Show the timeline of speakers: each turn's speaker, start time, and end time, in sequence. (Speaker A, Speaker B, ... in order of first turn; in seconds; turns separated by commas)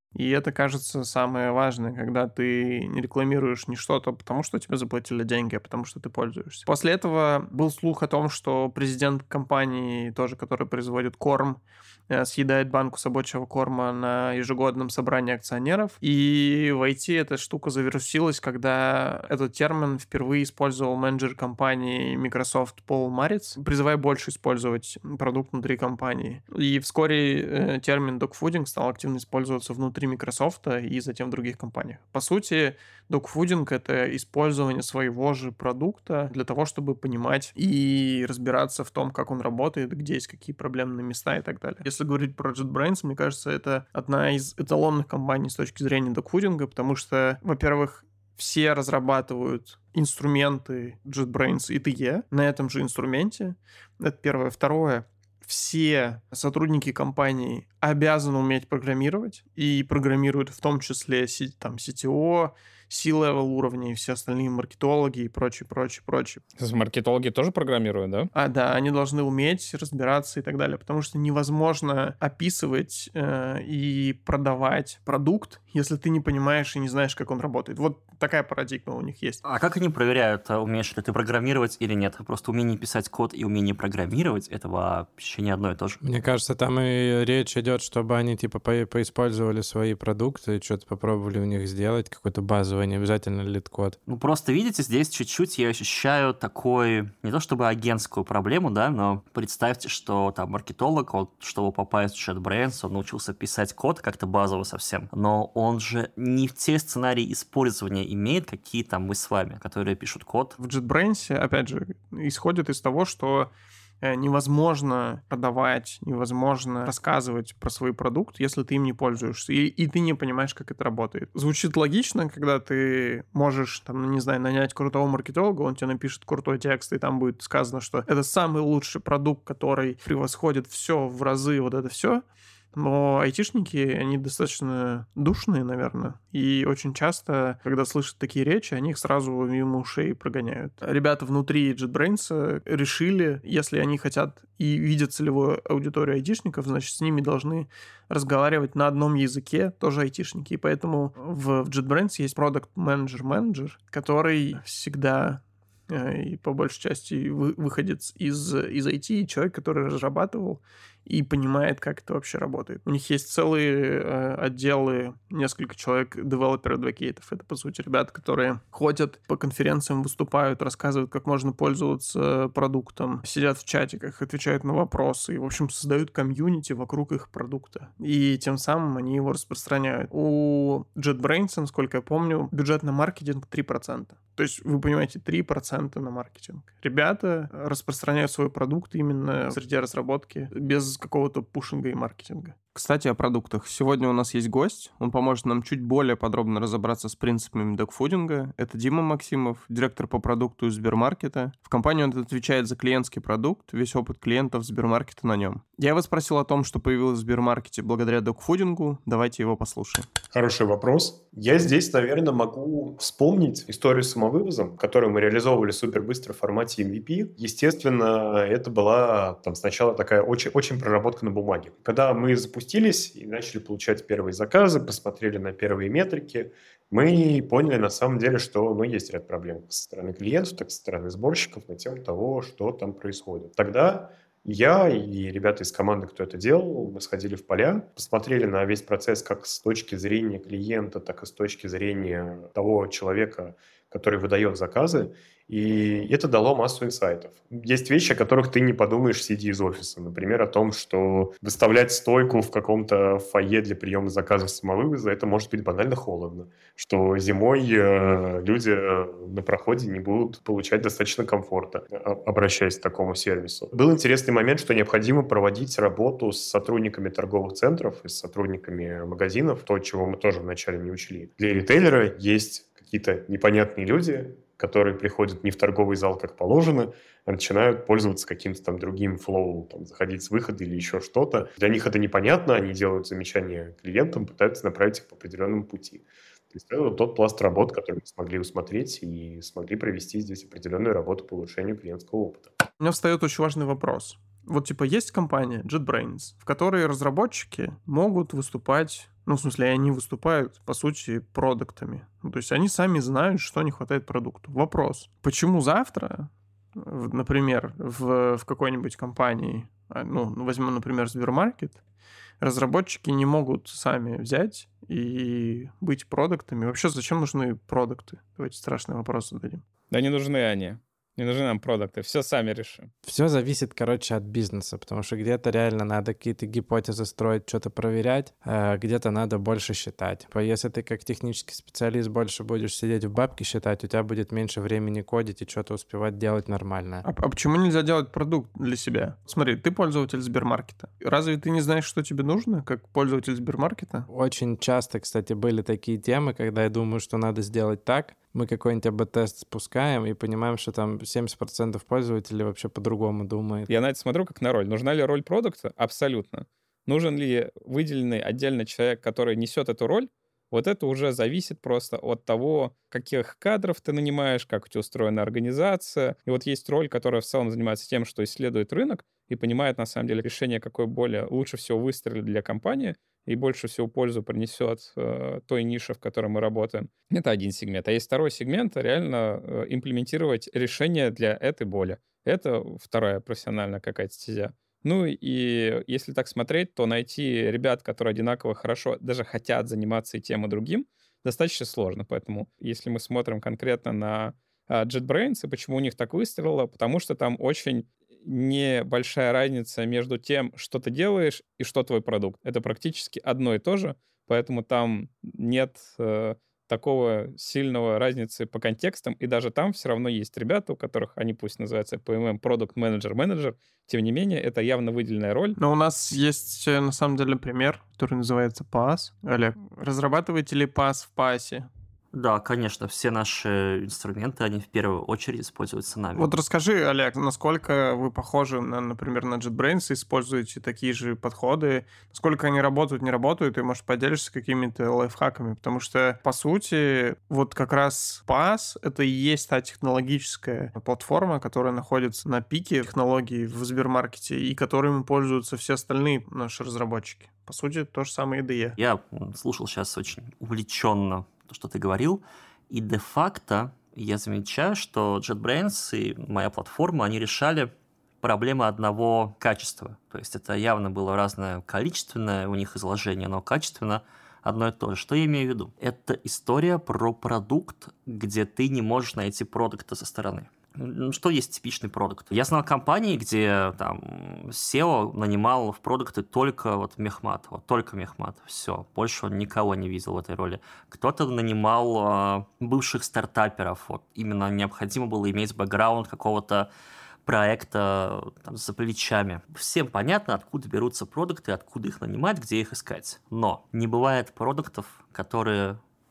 Speaker A: 0.1-66.4, Speaker B: 66.6-68.3, Speaker A: 68.3-79.4, Speaker C: 79.4-86.0, Speaker D: 86.0-94.0, Speaker C: 94.1-110.6, Speaker A: 110.6-113.5, Speaker A: 114.0-210.1, Speaker E: 210.3-292.5, Speaker A: 292.8-311.8, Speaker A: 312.4-319.6, Speaker B: 319.9-322.9, Speaker D: 323.0-337.0, Speaker A: 337.0-344.1, Speaker D: 344.1-353.7, Speaker B: 353.7-415.6, Speaker A: 415.6-421.7, Speaker C: 422.1-426.3, Speaker A: 426.1-448.8, Speaker C: 448.8-457.7, Speaker C: 458.2-486.7, Speaker C: 487.2-495.8